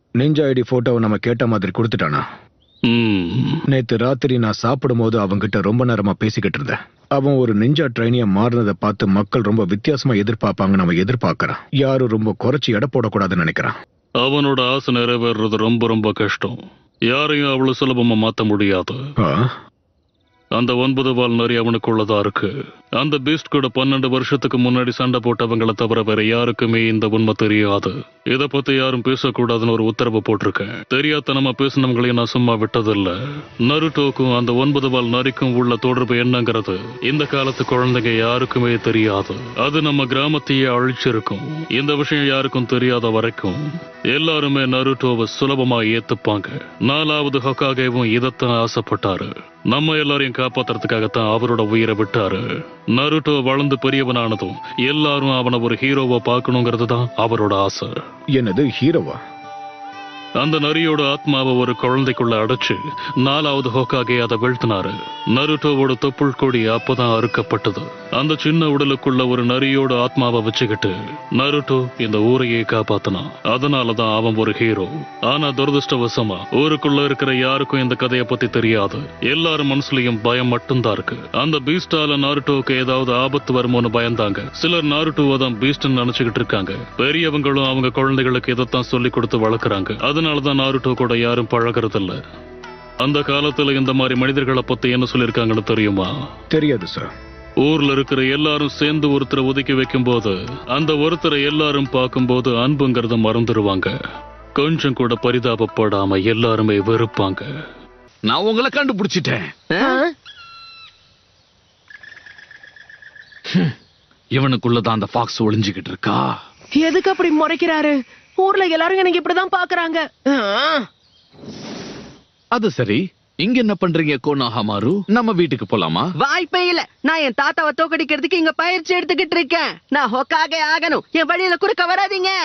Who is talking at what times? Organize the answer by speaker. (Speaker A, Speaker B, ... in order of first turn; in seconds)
Speaker A: 0.2-2.2, 3.7-13.7, 19.2-19.5, 58.3-59.2, 96.5-97.1
Speaker B: 2.9-3.6, 14.2-16.6, 17.1-19.0, 20.6-33.1, 33.6-43.6, 44.1-58.0, 60.4-92.2, 93.0-96.1, 97.6-103.9, 104.6-107.5
Speaker C: 108.2-109.5, 113.5-113.7, 114.3-116.3, 122.5-126.1
Speaker D: 109.7-110.0, 126.2-132.3
Speaker E: 109.8-110.1, 116.8-120.8